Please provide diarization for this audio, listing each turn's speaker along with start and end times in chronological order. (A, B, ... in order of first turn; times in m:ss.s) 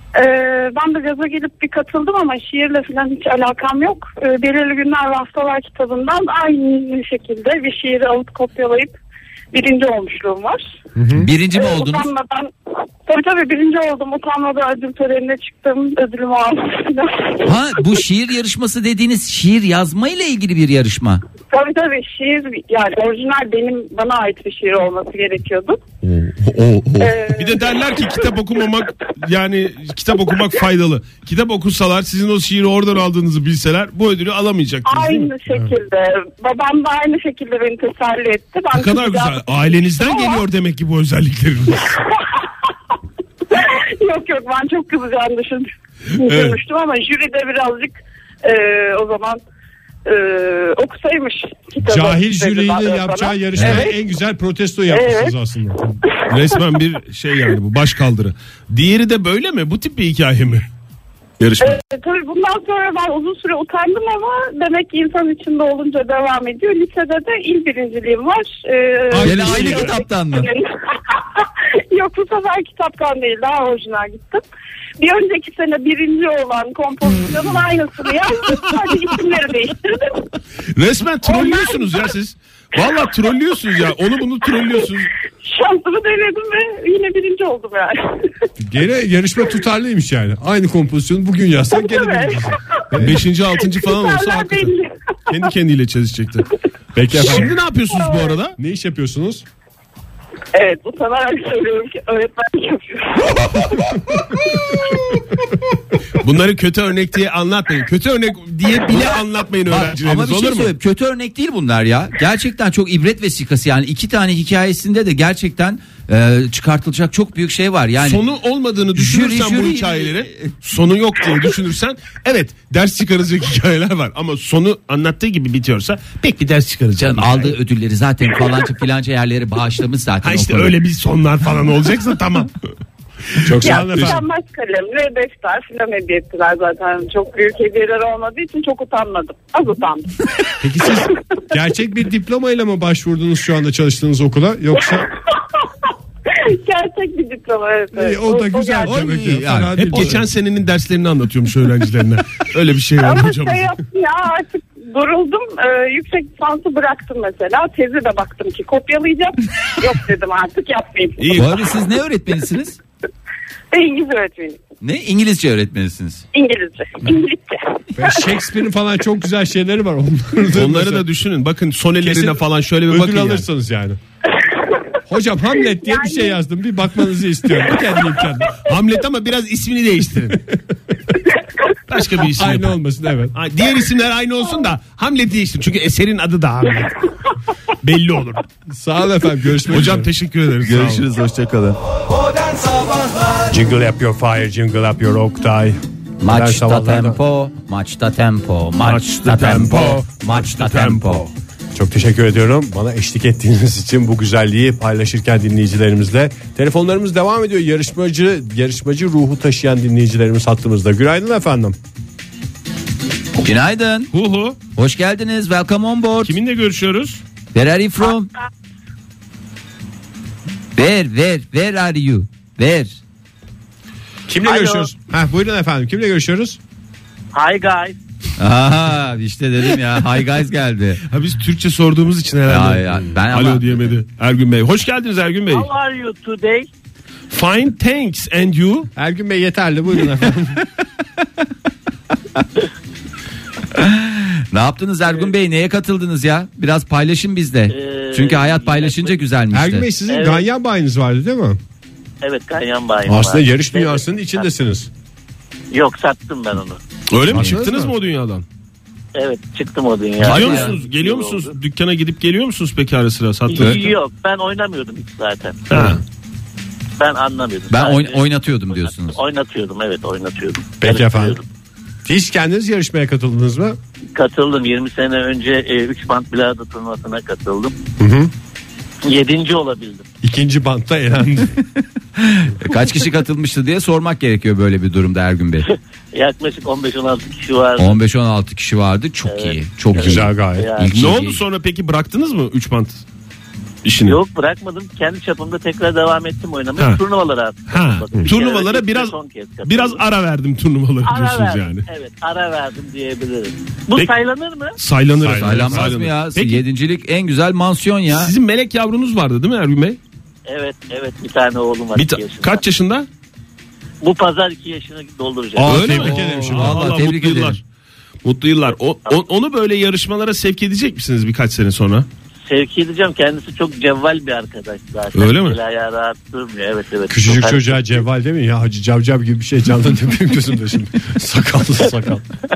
0:00.2-0:09.0 A
0:09.5-0:10.6 A
0:11.0-0:11.3 B
0:11.2-0:12.1 C
0:11.5-0:12.5 A
0:13.1-0:17.5 A
0:17.4-0:21.2 C
0:21.5-0:25.8 A
0:26.1-0:35.3 D
0:27.0-0:27.7 A
0:34.9-0:40.4 A
0:35.5-0:35.8 B
0:38.7-0:42.0 D
0:41.9-0:42.5 A
0:43.5-0:49.4 A
0:46.2-0:46.6 D
0:50.0-0:54.0 A
0:51.8-0:55.9 B
0:53.6-0:53.8 C
0:54.9-0:55.3 A
0:56.0-0:56.8 A
0:56.3-1:00.7 D
1:01.4-1:01.8 D
1:01.6-1:14.4 A
1:09.2-1:10.0 B
1:09.2-1:10.5 C
1:15.0-1:20.2 A
1:20.8-1:25.1 D
1:21.2-1:22.0 A
1:25.4-1:28.3 A
1:28.6-1:33.3 B
1:31.7-1:35.3 A
1:33.0-1:34.7 D
1:35.3-1:36.5 D
1:37.0-1:37.6 B
1:37.1-1:38.6 D
1:37.9-1:38.4 A
1:38.6-1:39.4 B
1:40.5-1:44.0 A
1:46.2-1:50.7 D
1:48.9-1:58.2 C
1:58.0-2:07.6 D
1:59.0-2:00.5 C
2:07.0-2:10.8 C
2:10.2-2:12.5 D
2:13.4-2:14.2 D
2:13.4-2:14.2 B
2:13.6-2:20.2 A
2:20.6-2:25.1 B
2:26.3-2:29.0 A
2:28.0-2:30.2 B
2:28.9-2:30.2 C
2:29.7-2:33.7 D
2:33.0-2:41.5 A
2:41.2-2:41.6 D
2:41.3-2:42.8 C
2:43.7-2:44.6 A
2:44.8-2:46.2 C
2:46.3-2:48.3 A
2:48.0-2:51.1 B
2:50.5-2:53.4 D
2:52.0-2:54.0 B
2:55.1-2:58.6 B
2:55.7-2:56.4 A
2:58.6-3:00.4 D
3:01.9-3:02.8 D
3:02.2-3:03.4 B
3:03.3-3:06.9 D
3:07.8-3:08.4 D
3:08.7-3:10.1 B
3:09.7-3:11.1 D
3:10.6-3:11.8 C
3:13.5-3:17.2 B
3:16.2-3:21.2 C
3:18.8-3:21.3 D
3:21.8-3:31.8 B
3:33.4-3:34.1 C
3:34.1-3:34.6 D
3:34.8-3:36.4 C
3:36.2-3:37.2 D
3:37.5-3:38.3 C
3:40.8-3:43.0 C
3:44.3-3:46.6 B
3:44.4-3:44.9 E
3:47.3-3:48.0 E
3:48.4-3:51.0 C
3:51.1-3:55.7 D
3:52.5-3:54.0 C
3:55.5-3:56.7 E
3:57.3-3:58.9 D
3:59.0-4:00.6 B
4:03.7-4:09.9 C
4:07.7-4:09.2 E
4:09.5-4:11.6 B
4:10.1-4:10.5 E
4:12.2-4:14.5 E
4:13.0-4:14.9 B
4:15.7-4:16.8 E
4:17.1-4:18.4 D
4:17.3-4:17.9 B
4:19.2-4:21.6 E
4:20.2-4:23.9 D
4:20.2-4:20.7 C
4:23.5-4:25.9 E
4:25.7-4:26.0 D
4:27.0-4:31.4 E
4:27.7-4:29.2 C
4:30.8-4:31.4 B
4:32.0-4:33.8 B
4:34.2-4:37.7 E
4:38.0-4:38.3 B
4:39.0-4:40.0 E
4:40.2-4:41.6 B
4:42.2-4:45.7 C
4:45.7-4:48.0 E
4:47.8-4:51.4 C
4:49.3-4:50.9 E
4:50.0-4:50.7 B
4:50.9-4:53.0 D
4:53.8-4:54.2 D
4:54.0-5:00.0 E
4:57.7-5:01.9 D
5:01.0-5:04.8 E
5:04.8-5:06.6 D
5:05.2-5:06.0 B
5:05.3-5:08.3 C
5:08.1-5:10.0 D
5:10.5-5:12.6 E
5:12.0-5:13.1 D
5:14.0-5:16.1 E
5:15.6-5:17.6 D
5:15.6-5:16.9 B
5:15.7-5:17.6 C
5:18.2-5:22.1 D
5:22.5-5:28.0 E
5:25.2-5:25.6 D
5:27.1-5:32.2 B